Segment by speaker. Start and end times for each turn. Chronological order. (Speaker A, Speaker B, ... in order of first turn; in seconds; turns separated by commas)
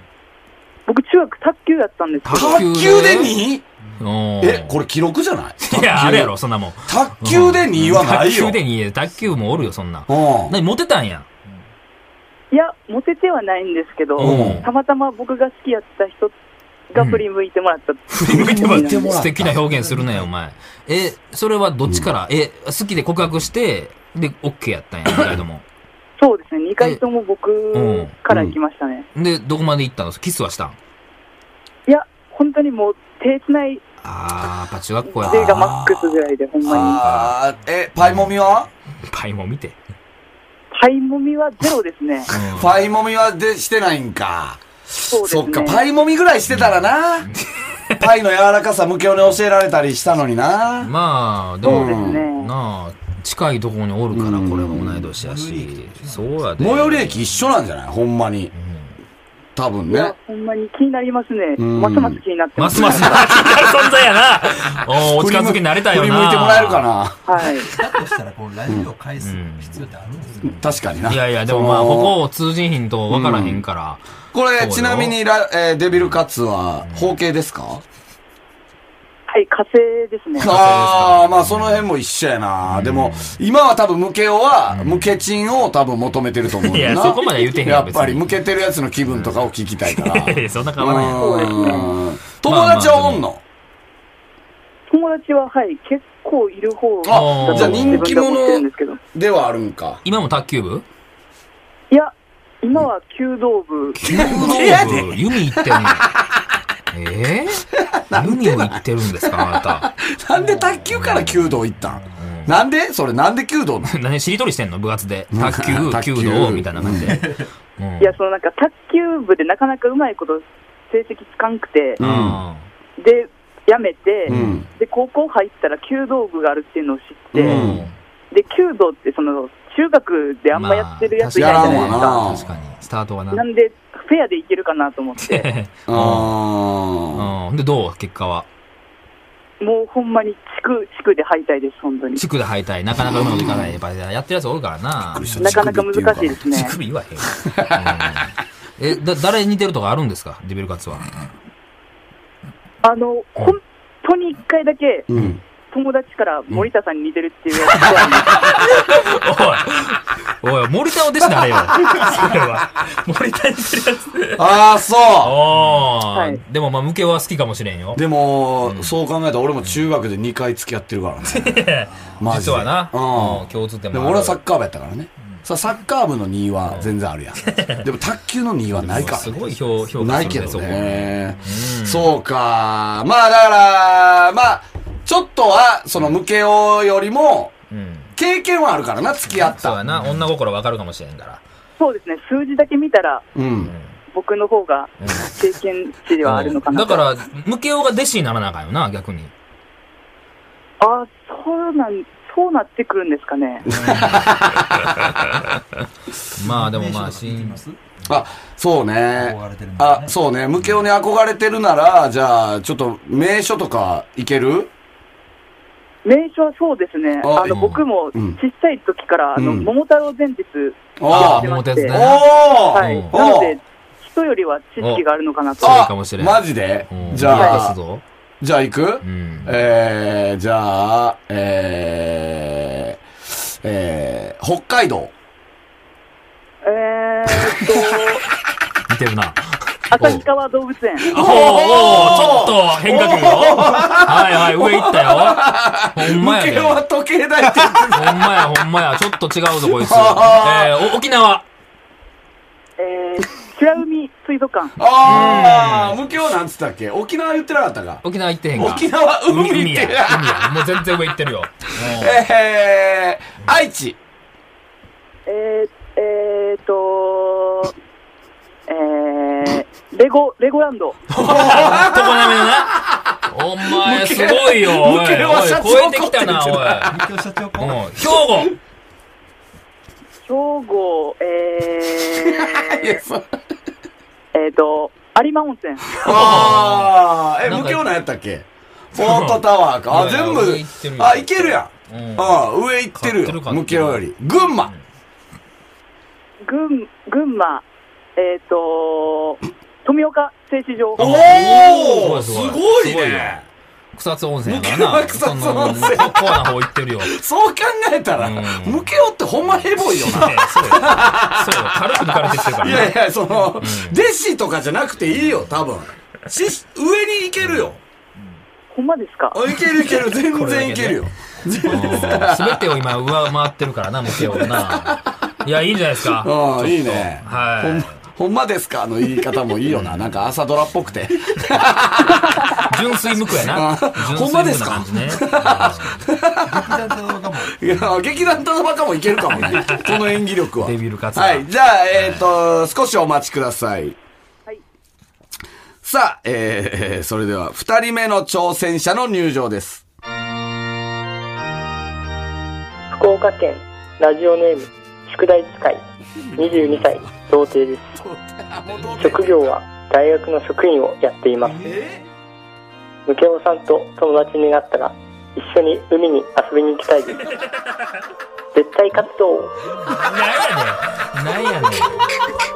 Speaker A: 0.9-2.6, Speaker B: 2.2-3.4, Speaker C: 2.3-3.6, Speaker B: 4.0-4.8, Speaker C: 4.4-6.3, Speaker B: 5.7-11.3, Speaker C: 6.9-8.6, Speaker C: 10.1-10.6, Speaker A: 12.5-16.3, Speaker B: 14.2-14.7, Speaker C: 14.2-14.7, Speaker A: 16.9-19.1, Speaker B: 17.0-17.2, Speaker B: 18.1-25.6, Speaker C: 18.2-19.6, Speaker D: 19.7-20.3, Speaker A: 26.2-29.1, Speaker B: 27.7-28.1, Speaker C: 28.3-28.6, Speaker B: 29.1-30.8, Speaker A: 31.9-33.8, Speaker B: 34.0-36.0, Speaker A: 35.1-37.0, Speaker C: 35.3-36.0, Speaker B: 36.6-37.4, Speaker C: 36.6-38.7, Speaker B: 38.0-38.3, Speaker B: 39.1-39.8, Speaker A: 40.7-42.3, Speaker B: 42.3-42.8, Speaker C: 42.3-47.3, Speaker A: 45.1-45.8, Speaker B: 46.5-48.1, Speaker C: 48.0-50.9, Speaker B: 50.8-57.3, Speaker C: 51.6-52.3, Speaker A: 51.6-52.5, Speaker C: 54.1-55.1, Speaker D: 55.2-56.7, Speaker C: 56.6-58.5, Speaker B: 58.5-59.0, Speaker C: 59.6-60.1, Speaker A: 59.9-63.5, Speaker C: 61.6-62.2, Speaker B: 62.6-66.9, Speaker C: 65.1-67.2, Speaker A: 67.3-67.7, Speaker D: 67.7-70.8, Speaker B: 69.2-69.8, Speaker C: 70.5-72.2, Speaker B: 71.1-74.0, Speaker C: 73.1-73.6, Speaker C: 74.3-77.8, Speaker B: 74.6-75.2, Speaker B: 76.0-76.2, Speaker B: 76.8-77.2, Speaker A: 79.3-80.5, Speaker C: 80.4-93.4, Speaker B: 80.4-81.9, Speaker B: 82.7-83.4, Speaker B: 84.7-85.2, Speaker B: 86.6-88.4, Speaker B: 89.1-91.9, Speaker A: 91.2-91.9, Speaker B: 92.4-93.2, Speaker A: 94.9-99.0, Speaker C: 97.0-100.0, Speaker B: 97.1-98.1, Speaker B: 100.0-100.8, Speaker A: 101.9-104.8, Speaker B: 104.0-106.1, Speaker C: 104.0-106.3, Speaker B: 106.9-109.9, Speaker C: 107.8-113.9, Speaker D: 110.4-110.8, Speaker B: 110.9-111.6, Speaker B: 112.2-112.5, Speaker B: 113.8-117.2, Speaker C: 115.3-117.2, Speaker D: 117.0-117.5, Speaker B: 117.8-118.2, Speaker A: 118.0-122.0, Speaker C: 122.0-122.4, Speaker B: 122.0-122.7, Speaker A: 123.0-127.6, Speaker C: 124.3-124.7, Speaker C: 127.3-127.8, Speaker B: 127.4-127.9, Speaker A: 128.3-132.3, Speaker B: 130.5-133.4, Speaker C: 131.4-132.4, Speaker A: 133.3-135.5, Speaker B: 135.2-136.4, Speaker C: 135.9-137.3, Speaker B: 137.1-138.5, Speaker A: 139.6-142.2, Speaker B: 142.2-145.6, Speaker C: 143.1-143.7, Speaker C: 145.1-146.4, Speaker A: 145.4-146.8, Speaker B: 146.5-151.1, Speaker C: 147.4-148.1, Speaker A: 152.8-155.1, Speaker C: 155.1-155.4, Speaker A: 155.7-158.7, Speaker B: 158.3-164.4, Speaker C: 164.4-165.4, Speaker B: 165.2-168.0, Speaker A: 166.1-166.4, Speaker C: 168.0-171.6, Speaker B: 168.6-168.9, Speaker B: 171.3-174.4, Speaker C: 172.2-179.4, Speaker B: 177.5-177.8, Speaker B: 178.8-182.1, Speaker D: 178.9-180.8, Speaker C: 180.0-187.5, Speaker B: 187.7-188.1, Speaker C: 188.2-189.8, Speaker B: 189.3-191.4, Speaker A: 191.8-193.3, Speaker C: 193.3-193.7, Speaker B: 193.7-194.0, Speaker A: 194.1-197.0, Speaker B: 195.0-195.3, Speaker B: 196.2-199.3, Speaker A: 200.8-203.7, Speaker C: 203.7-205.1, Speaker B: 203.7-204.3, Speaker B: 206.4-207.6, Speaker D: 206.4-207.8, Speaker C: 208.1-214.7, Speaker D: 209.2-210.1, Speaker A: 216.1-222.0, Speaker C: 217.2-217.6, Speaker B: 217.5-217.8, Speaker C: 219.4-219.7, Speaker C: 221.0-223.6, Speaker B: 221.1-223.2, Speaker A: 222.7-225.8, Speaker B: 224.8-225.0, Speaker B: 225.6-228.0, Speaker C: 225.6-227.8, Speaker A: 227.2-227.7, Speaker C: 228.4-233.0, Speaker B: 229.0-229.6, Speaker C: 233.6-235.1, Speaker A: 236.6-238.2, Speaker B: 238.9-239.4, Speaker B: 239.9-240.3, Speaker A: 239.9-242.4, Speaker C: 241.1-248.3, Speaker B: 241.1-245.4, Speaker B: 245.9-246.8, Speaker B: 247.9-251.4, Speaker C: 249.7-250.8, Speaker A: 252.8-254.8, Speaker C: 254.8-260.5, Speaker B: 255.0-256.0, Speaker B: 258.0-262.2, Speaker C: 261.8-264.0, Speaker A: 265.3-267.7, Speaker A: 268.7-271.0, Speaker B: 271.1-272.8, Speaker C: 271.2-277.0, Speaker B: 273.3-276.9, Speaker D: 276.9-277.8, Speaker B: 277.6-278.6, Speaker A: 280.3-283.0, Speaker C: 282.1-283.3, Speaker A: 284.3-286.1, Speaker C: 286.0-294.7, Speaker B: 286.0-287.8, Speaker B: 289.0-292.4, Speaker B: 292.9-294.1, Speaker A: 296.4-297.6, Speaker A: 298.2-301.7, Speaker B: 301.0-303.4, Speaker C: 301.0-303.4, Speaker B: 303.9-307.2, Speaker C: 304.4-306.5, Speaker C: 307.0-317.8, Speaker B: 308.2-308.9, Speaker B: 309.7-313.0, Speaker B: 313.6-314.0, Speaker B: 317.4-317.8, Speaker A: 318.7-319.4, Speaker C: 319.3-322.8, Speaker B: 319.9-321.1, Speaker B: 321.7-328.0, Speaker C: 324.1-325.1, Speaker C: 326.2-332.5, Speaker B: 329.7-330.2, Speaker B: 332.6-336.0, Speaker C: 333.4-336.8, Speaker D: 336.4-338.1, Speaker C: 337.6-344.0, Speaker B: 339.5-340.1, Speaker B: 340.6-342.3, Speaker C: 345.8-349.8, Speaker E: 352.9-355.8, Speaker E: 356.4-358.0, Speaker C: 358.0-359.5, Speaker E: 358.9-361.6, Speaker D: 361.6-361.8, Speaker C: 361.6-362.0, Speaker E: 363.1-367.3, Speaker E: 368.5-369.5, Speaker B: 369.9-372.0